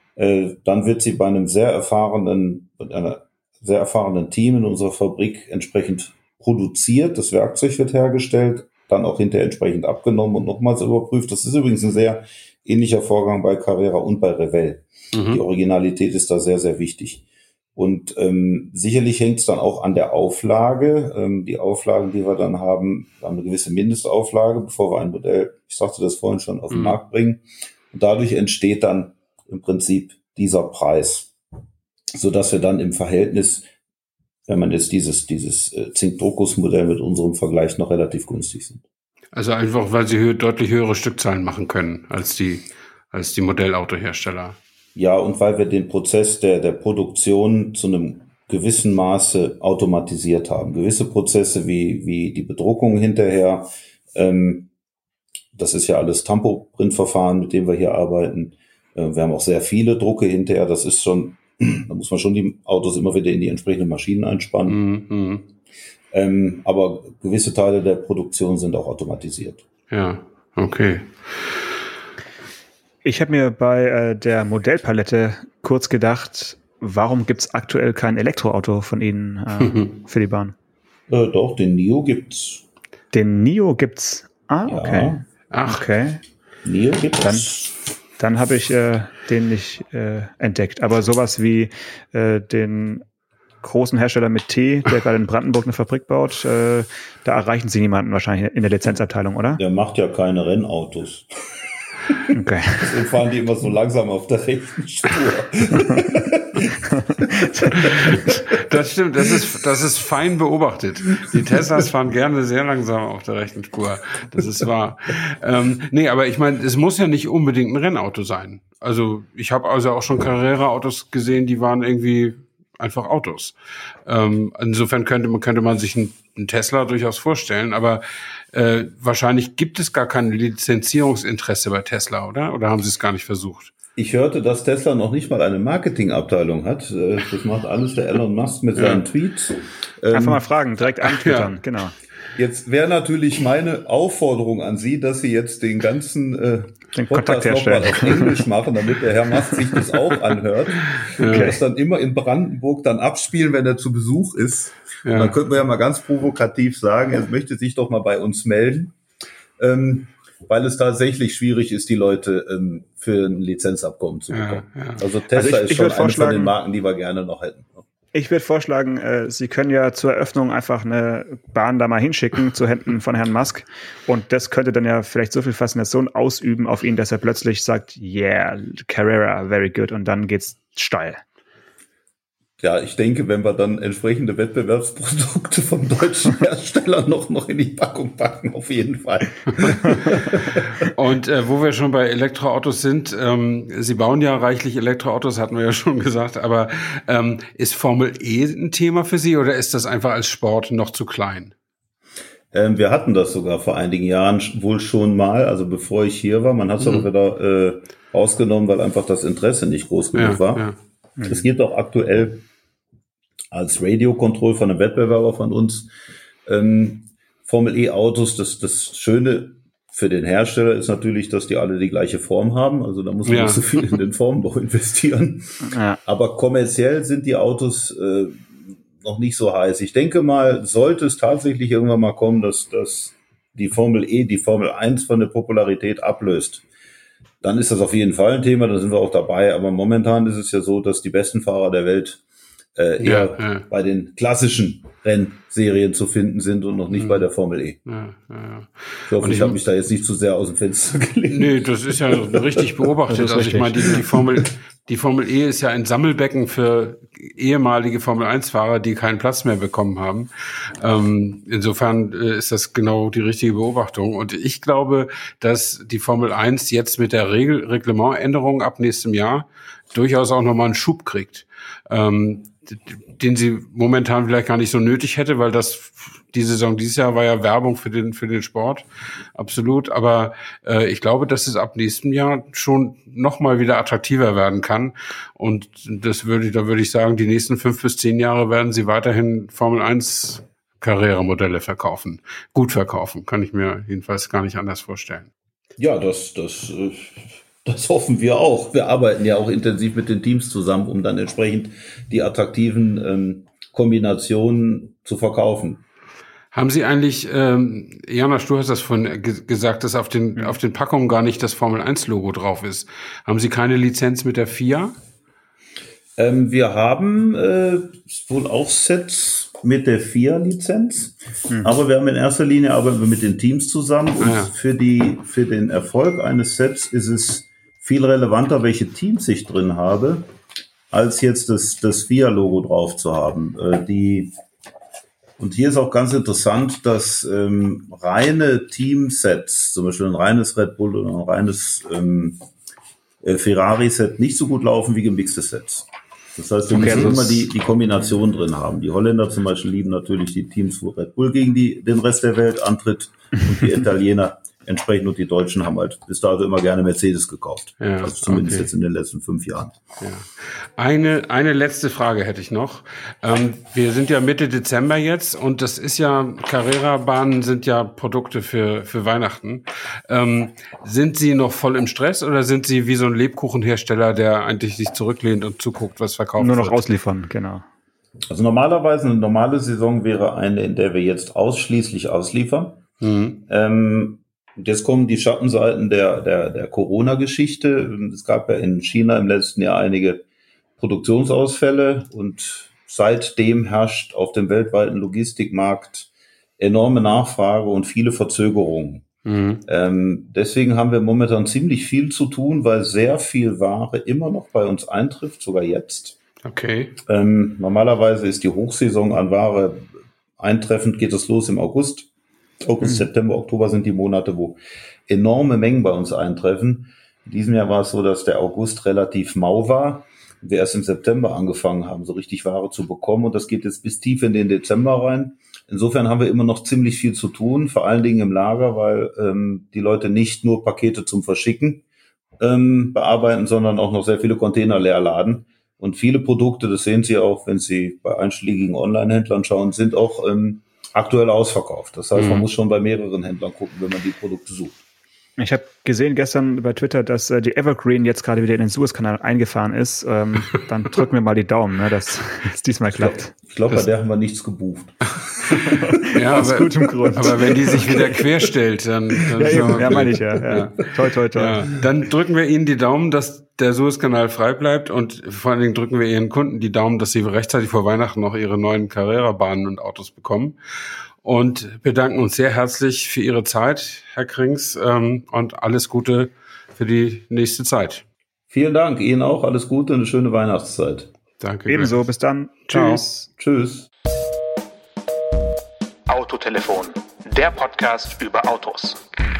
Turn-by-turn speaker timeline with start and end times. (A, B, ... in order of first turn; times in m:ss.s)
0:00.2-0:17.2 A
0:15.1-0:15.4 B
0:17.8-0:31.3 A
0:26.7-0:27.0 B
0:32.1-0:33.7 A
0:34.5-0:38.8 A
0:39.3-0:44.6 B
0:45.0-0:54.7 A
0:55.5-1:04.8 A
1:04.7-1:05.4 B
1:06.1-1:09.7 A
1:09.9-1:11.2 B
1:13.0-1:20.6 C
1:21.1-1:22.6 A
1:23.1-1:26.2 C
1:24.7-1:25.2 A
1:25.5-1:25.9 B
1:26.6-1:27.7 A
1:27.2-1:27.6 C
1:28.2-1:33.0 C
1:33.6-1:39.6 C
1:39.6-1:41.3 A
1:42.3-1:42.9 C
1:42.8-1:48.4 A
1:47.8-2:03.6 B
2:04.1-2:08.0 B
2:08.5-2:13.7 B
2:14.0-2:20.4 A
2:18.8-2:19.0 B
2:20.1-2:21.9 C
2:21.0-2:21.5 B
2:22.4-2:39.0 A
2:26.9-2:28.4 C
2:31.0-2:31.6 B
2:31.2-2:31.6 C
2:35.0-2:35.4 B
2:39.6-2:47.8 A
2:44.3-2:45.0 B
2:45.4-2:46.5 C
2:48.1-3:01.2 C
3:02.6-3:10.9 A
3:10.8-3:21.5 B
3:22.5-3:30.6 A
3:30.2-3:30.8 B
3:31.2-3:31.4 C
3:31.2-3:32.5 A
3:33.5-3:35.9 A
3:36.5-3:56.6 A
3:43.3-3:44.0 B
3:45.6-3:46.0 C
3:57.4-4:02.2 A
4:02.8-4:07.8 A
4:03.0-4:03.6 B
4:07.9-4:09.6 B
4:09.1-4:12.9 A
4:11.3-4:55.3 B
4:13.1-4:13.9 C
4:55.8-5:05.8 A
5:06.5-5:15.0 B
5:16.2-5:30.3 A
5:24.2-5:24.5 B
5:30.9-5:34.3 A
5:35.4-5:42.4 A
5:43.2-5:59.8 A
5:46.8-5:47.4 C
5:46.8-5:47.1 B
5:57.8-5:58.7 B
6:00.0-6:16.8 B
6:16.4-6:17.6 C
6:18.3-6:22.8 A
6:23.0-6:23.4 B
6:23.5-6:30.2 A
6:30.8-6:39.1 A
6:39.3-6:39.6 B
6:39.7-6:46.2 A
6:46.4-6:47.0 B
6:47.1-6:52.1 A
6:52.6-7:11.8 A
7:12.4-7:24.8 A
7:22.2-7:22.4 B
7:25.4-7:33.3 C
7:33.0-7:35.9 A
7:35.6-7:37.8 C
7:36.1-7:50.6 B
7:37.5-7:38.3 A
7:39.4-7:41.7 C
7:39.5-7:40.0 A
7:51.2-7:58.0 B
7:58.5-8:01.1 A
8:01.4-8:02.0 B
8:01.7-8:03.3 C
8:02.7-8:03.0 B
8:03.4-8:03.9 A
8:06.1-8:09.0 D